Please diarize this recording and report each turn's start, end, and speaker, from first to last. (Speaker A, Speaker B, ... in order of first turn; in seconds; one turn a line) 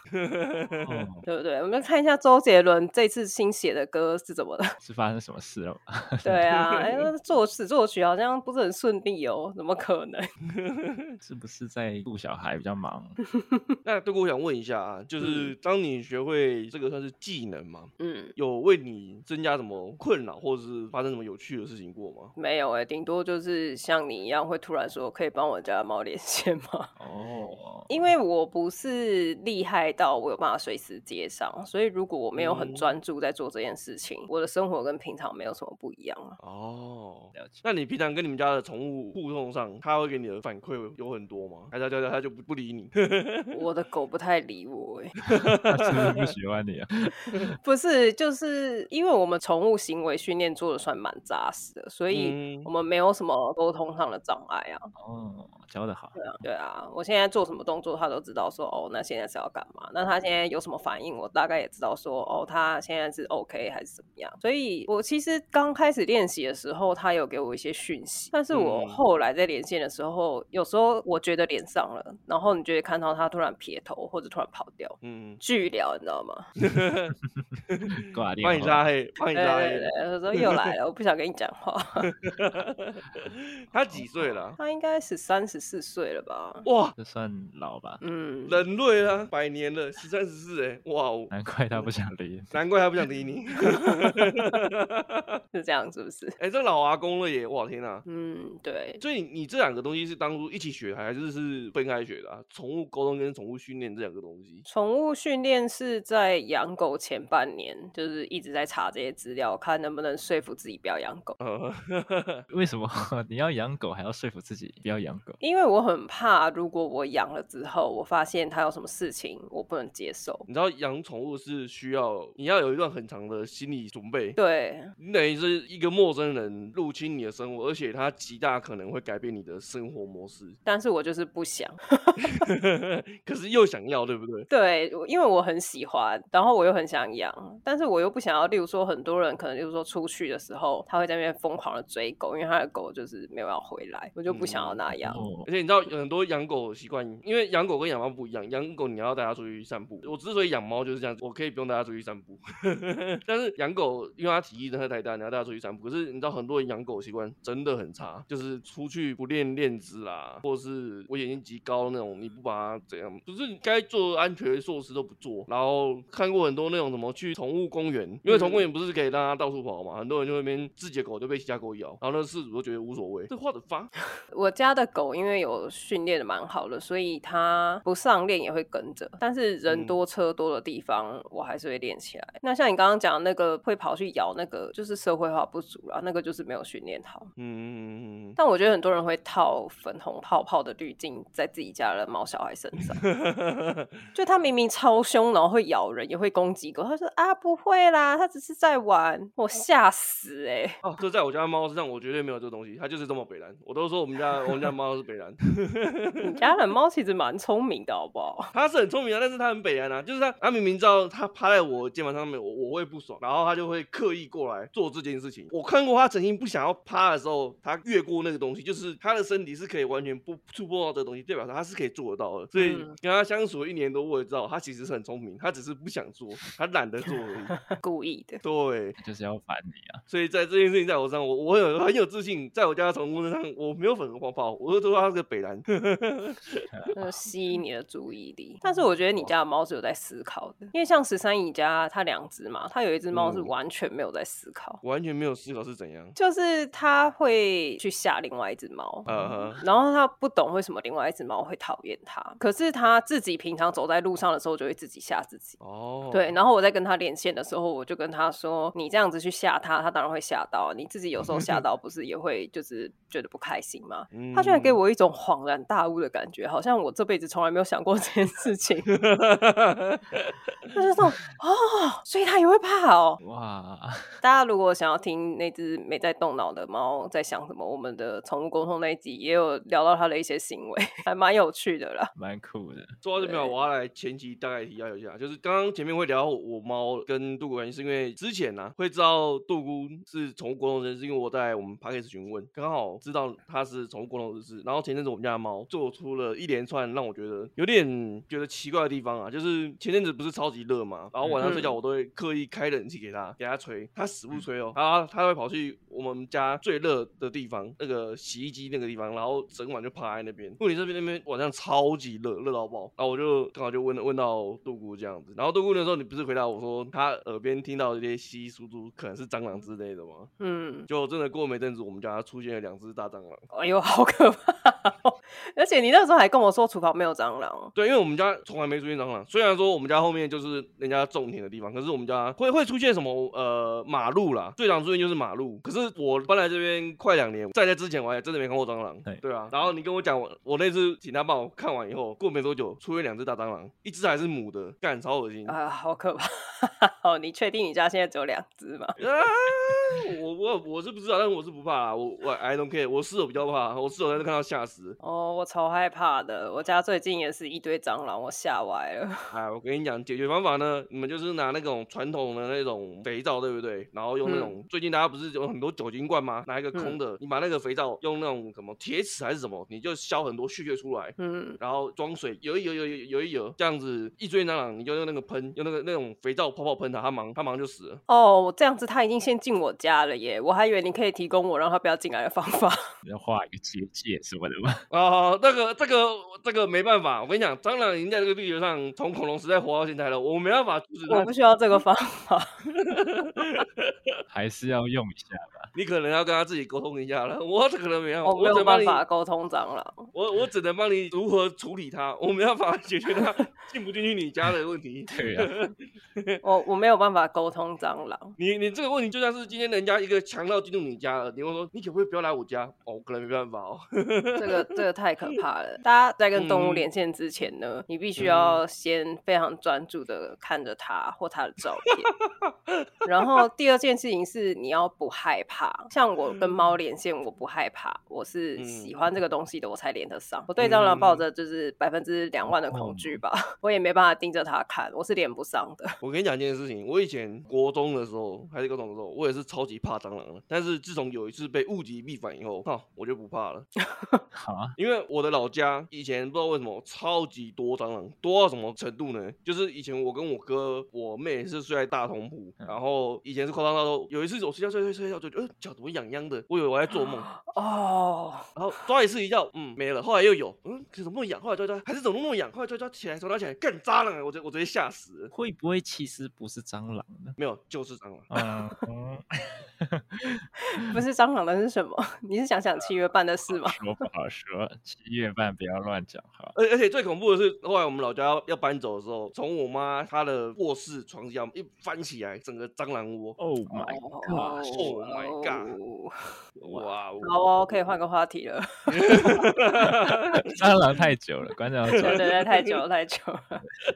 Speaker A: 0.1-1.1
Speaker B: 0.8-1.3
Speaker C: 1.3-4.8
Speaker B: 4.8-6.6
Speaker C: 6.2-10.3
Speaker A: 10.5-11.1
Speaker B: 11.2-13.2
Speaker C: 13.4-13.8
Speaker A: 13.8-22.3
Speaker C: 15.2-15.5
Speaker C: 18.0-18.3
Speaker C: 22.4-26.9
Speaker B: 27.0-28.0
Speaker A: 27.3-27.6
Speaker C: 27.9-36.4
Speaker A: 32.4-32.9
Speaker A: 36.4-43.6
Speaker B: 37.3-37.6
Speaker C: 43.5-45.2
Speaker A: 45.3-46.3
Speaker B: 45.6-47.4
Speaker C: 47.6-54.9
Speaker A: 52.1-52.7
Speaker B: 55.0-56.2
Speaker C: 56.1-76.5
Speaker A: 68.5-69.0
Speaker A: 75.0-75.4
Speaker A: 76.6-77.1
Speaker B: 77.3-78.9
Speaker A: 77.7-80.5
Speaker C: 79.3-82.1
Speaker A: 82.0-84.6
Speaker C: 84.6-86.7
Speaker A: 86.7-87.0
Speaker B: 87.0-88.0
Speaker C: 88.0-88.6
Speaker A: 88.5-91.3
Speaker B: 91.3-92.6
Speaker A: 92.5-95.4
Speaker C: 93.7-94.2
Speaker C: 95.5-96.4
Speaker A: 96.4-98.1
Speaker C: 98.1-99.0
Speaker A: 99.0-104.7
Speaker C: 104.7-111.4
Speaker A: 111.4-112.4
Speaker B: 112.5-115.4
Speaker C: 115.4-120.5
Speaker A: 120.5-124.4
Speaker C: 124.4-124.9
Speaker A: 125.0-130.6
Speaker C: 130.7-132.4
Speaker A: 132.2-134.5
Speaker C: 134.5-145.2
Speaker A: 144.3-144.8
Speaker B: 144.9-145.5
Speaker A: 145.4-173.9
Speaker C: 168.3-168.7
Speaker C: 174.3-187.3
Speaker A: 179.7-180.0
Speaker A: 187.4-188.4
Speaker C: 188.4-193.1
Speaker A: 193.0-193.9
Speaker C: 194.2-200.8
Speaker A: 200.8-206.6
Speaker C: 206.2-208.5
Speaker A: 208.5-227.6
Speaker C: 222.6-222.9
Speaker C: 227.7-228.4
Speaker A: 228.4-229.0
Speaker B: 229.0-230.0
Speaker A: 230.1-236.7
Speaker B: 236.7-237.2
Speaker C: 236.9-244.8
Speaker A: 243.1-243.5
Speaker A: 244.8-246.2
Speaker C: 246.2-255.6
Speaker A: 249.1-249.6
Speaker A: 255.6-256.4
Speaker C: 256.1-268.9
Speaker A: 264.1-264.8
Speaker A: 268.9-270.4
Speaker C: 270.7-273.2
Speaker B: 273.2-274.2
Speaker C: 274.2-282.1
Speaker B: 282.1-282.9
Speaker A: 283.0-320.3
Speaker C: 283.2-283.5
Speaker C: 301.4-301.8
Speaker C: 320.4-320.9
Speaker A: 320.9-323.4
Speaker C: 323.5-327.7
Speaker A: 327.8-345.6
Speaker C: 345.5-349.0
Speaker A: 349.0-355.0
Speaker C: 355.0-359.3
Speaker A: 359.3-378.0
Speaker C: 364.2-364.6
Speaker C: 371.2-371.6
Speaker C: 378.1-382.9
Speaker B: 383.0-384.9
Speaker A: 384.9-391.3
Speaker C: 391.1-392.6
Speaker A: 392.7-394.1
Speaker B: 394.3-395.7
Speaker A: 395.8-399.0
Speaker C: 398.2-400.1
Speaker A: 400.1-406.4
Speaker B: 405.1-405.5
Speaker C: 406.4-408.4
Speaker A: 408.4-414.8
Speaker C: 414.4-422.1
Speaker A: 416.4-416.9
Speaker A: 418.2-418.6
Speaker A: 422.3-422.9
Speaker C: 423.1-436.0
Speaker A: 428.6-428.9
Speaker A: 430.6-431.3
Speaker B: 432.5-433.2
Speaker A: 436.0-443.7
Speaker C: 443.8-444.2
Speaker B: 444.3-444.8
Speaker A: 444.8-457.3
Speaker C: 456.9-458.5
Speaker A: 458.6-465.3
Speaker B: 465.3-467.4
Speaker A: 467.4-468.3
Speaker B: 468.3-471.0
Speaker C: 470.7-473.8
Speaker B: 473.5-476.6
Speaker A: 476.6-483.4
Speaker B: 483.4-484.9
Speaker C: 483.7-486.2
Speaker A: 484.7-485.7
Speaker A: 486.6-487.4
Speaker C: 487.2-489.4
Speaker A: 488.9-490.4
Speaker B: 489.8-492.3
Speaker A: 491.9-492.5
Speaker C: 491.9-493.6